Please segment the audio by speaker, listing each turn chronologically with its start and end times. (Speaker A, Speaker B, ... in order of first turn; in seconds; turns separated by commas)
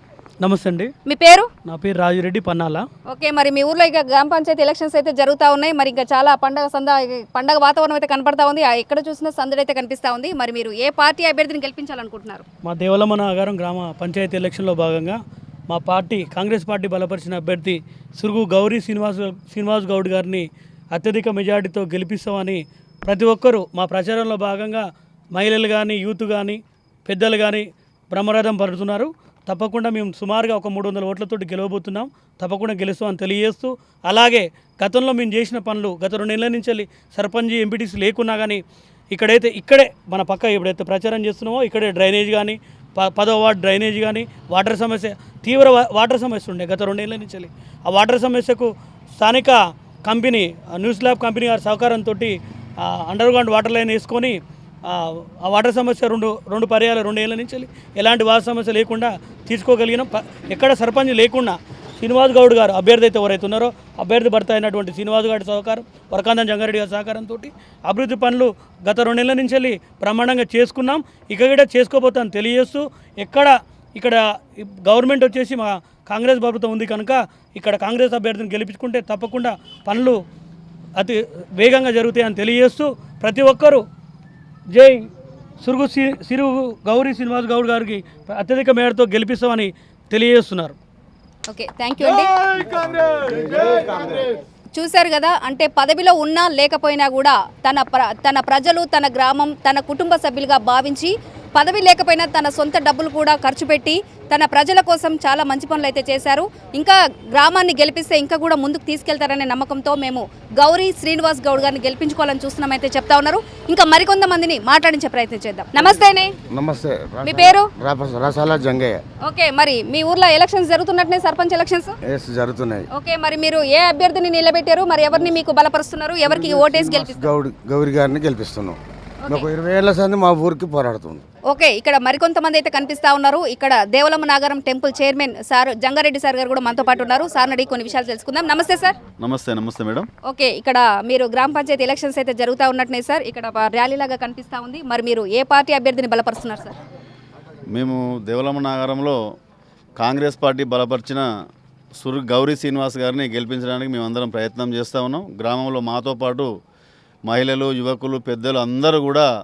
Speaker A: 0.4-0.9, Speaker B: 1.1-1.5, Speaker A: 1.7-2.9, Speaker B: 3.1-12.4, Speaker A: 12.7-15.2, Speaker A: 15.7-38.6, Speaker A: 39.1-80.2, Speaker A: 81.0-83.8, Speaker A: 84.7-85.1, Speaker A: 85.6-90.8, Speaker B: 91.5-92.3, Speaker B: 94.8-116.3, Speaker C: 116.5-119.0, Speaker B: 117.2-117.7, Speaker B: 119.2-122.0, Speaker C: 122.0-122.9, Speaker B: 122.9-127.3, Speaker C: 126.2-131.2, Speaker B: 131.5-139.0, Speaker D: 139.2-140.1, Speaker B: 140.3-146.8, Speaker D: 147.7-149.2, Speaker D: 150.0-151.3, Speaker D: 152.0-156.5, Speaker D: 157.3-159.3